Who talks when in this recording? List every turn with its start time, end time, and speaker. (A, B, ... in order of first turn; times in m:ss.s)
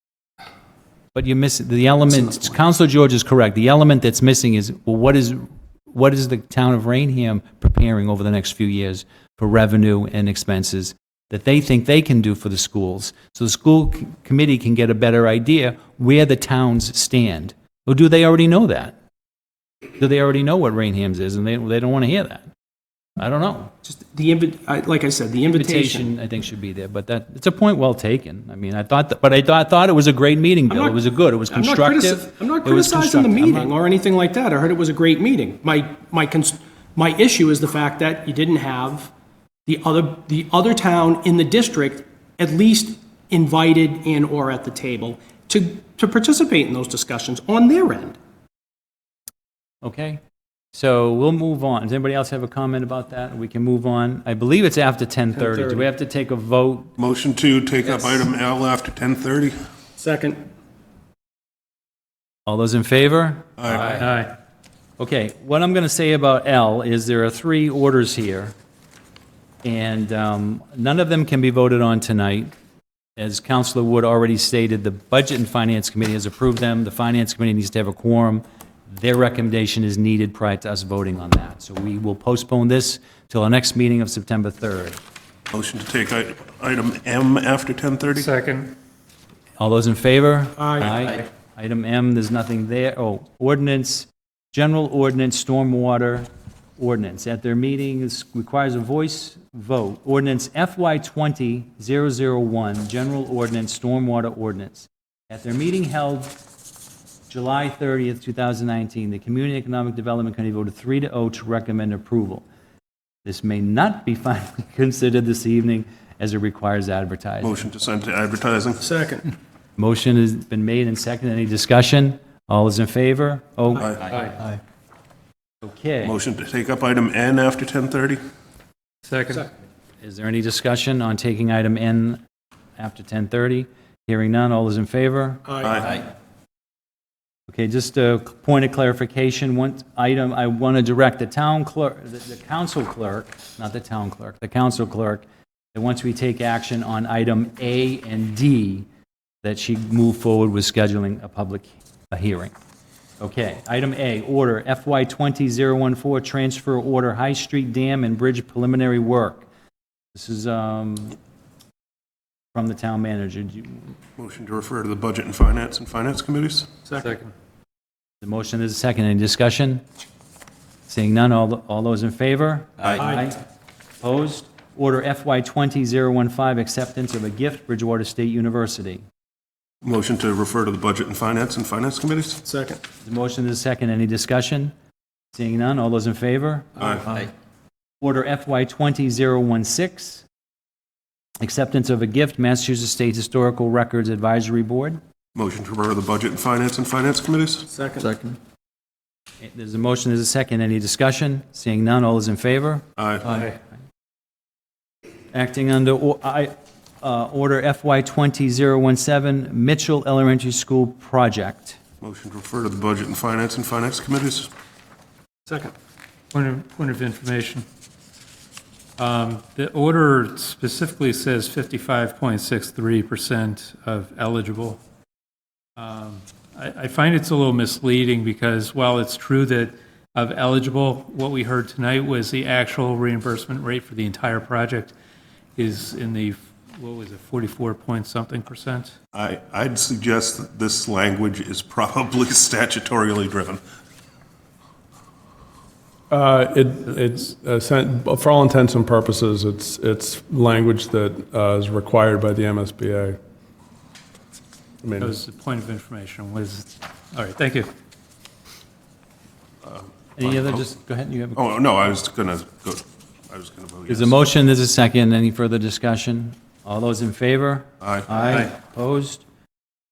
0:01.1-0:18.9 A
0:20.0-0:22.5 A
0:23.2-0:23.7 A
0:23.8-0:26.1 B
0:25.5-0:33.7 A
0:30.7-0:31.0 B
0:31.5-0:39.1 B
0:39.6-0:48.2 B
0:49.8-0:50.2 A
0:50.7-0:56.9 A
0:55.4-0:55.8 B
0:57.0-0:59.6 C
1:00.0-1:00.4 B
1:02.4-1:04.0 A
1:03.6-1:04.0 C
1:03.8-1:04.3 D
1:05.0-1:08.6 A
1:09.6-1:12.5 A
1:13.2-1:25.0 A
1:25.5-1:28.3 C
1:28.1-1:28.8 D
1:29.6-1:46.4 A
1:30.6-1:30.9 B
1:47.3-1:52.4 A
1:53.2-1:57.7 A
1:57.4-1:58.9 C
1:58.8-1:59.2 B
1:59.8-2:04.0 A
2:03.8-2:04.0 C
2:05.6-2:06.1 A
2:06.0-2:08.2 C
2:09.0-2:09.5 D
2:10.0-2:12.2 A
2:12.8-2:15.4 A
2:15.5-2:15.8 B
2:15.6-2:16.0 C
2:17.5-2:28.9 A
2:29.4-2:32.5 A
2:33.2-2:39.5 A
2:40.1-2:41.2 A
2:42.5-2:43.9 A
2:44.2-2:46.7 C
2:47.0-2:47.3 D
2:48.2-2:49.8 A
2:50.9-2:53.4 A
2:53.0-2:53.3 B
2:54.0-2:59.0 A
2:59.8-3:02.5 C
3:02.5-3:02.8 B
3:03.0-3:04.7 A
3:05.3-3:07.2 A
3:06.8-3:07.1 C
3:08.0-3:10.2 A
3:11.4-3:15.0 A
3:15.3-3:17.7 C
3:17.7-3:18.2 B
3:19.4-3:22.8 A
3:23.0-3:23.4 C
3:25.3-3:31.8 A
3:32.0-3:34.5 C
3:35.5-3:35.7 B
3:36.3-3:37.6 D
3:39.0-3:44.8 D
3:45.8-3:54.9 D
3:55.6-3:58.9 D
3:59.1-4:03.6 C
4:06.1-4:13.2 E
4:14.8-4:15.1 E
4:15.0-4:17.7 D
4:19.6-4:20.6 C
4:20.2-4:21.4 A
4:21.3-4:24.2 C
4:23.9-4:29.2 A
4:27.8-4:28.1 C